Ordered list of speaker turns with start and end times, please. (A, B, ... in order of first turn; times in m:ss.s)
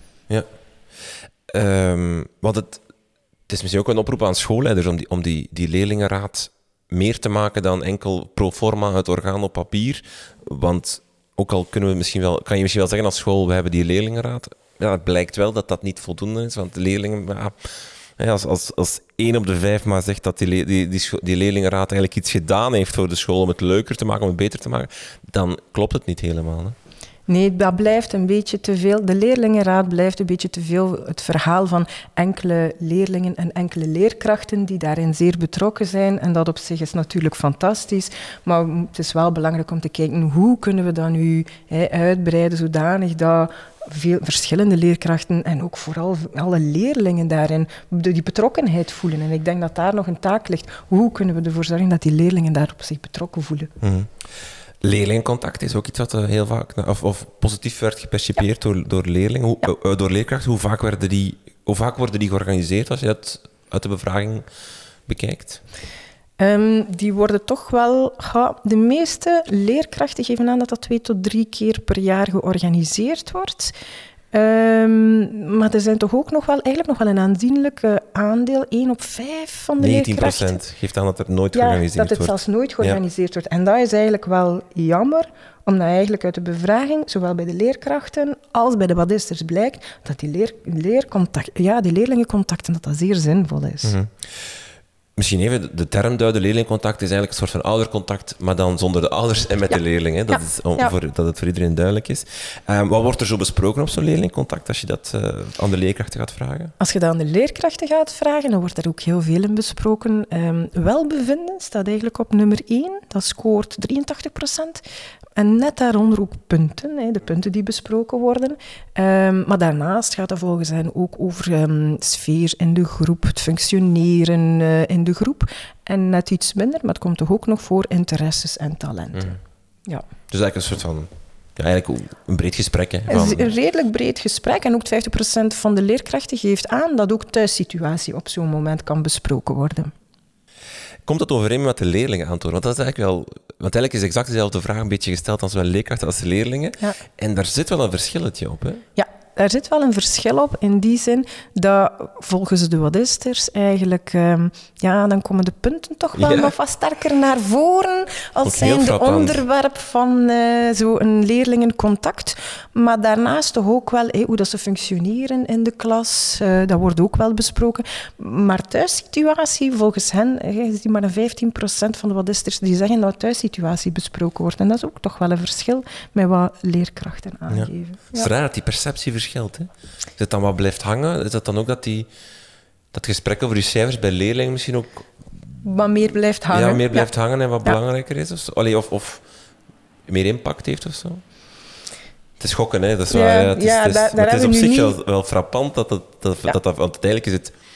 0:01.5-0:02.8 A
0:03.5-0:26.7 A
0:27.3-0:53.7 B
0:53.8-0:54.2 A
0:54.8-1:04.4 A
1:05.1-1:05.6 A
1:06.4-1:13.7 B
1:14.3-1:20.6 B
1:19.8-1:23.0 A
1:21.5-1:34.0 B
1:33.8-1:34.5 A
1:35.2-1:46.7 A
1:40.3-1:40.9 B
1:46.8-1:54.8 B
1:55.4-2:10.0 B
2:10.3-2:13.5 A
2:13.1-2:19.9 B
2:21.0-2:28.8 A
2:29.0-2:58.3 B
2:36.2-2:36.5 A
2:38.4-2:39.4 A
2:57.5-3:02.1 A
3:02.9-3:05.6 A
3:05.6-3:07.1 B
3:06.5-3:09.2 A
3:10.1-3:11.2 A
3:12.4-3:17.5 A
3:13.1-3:15.0 B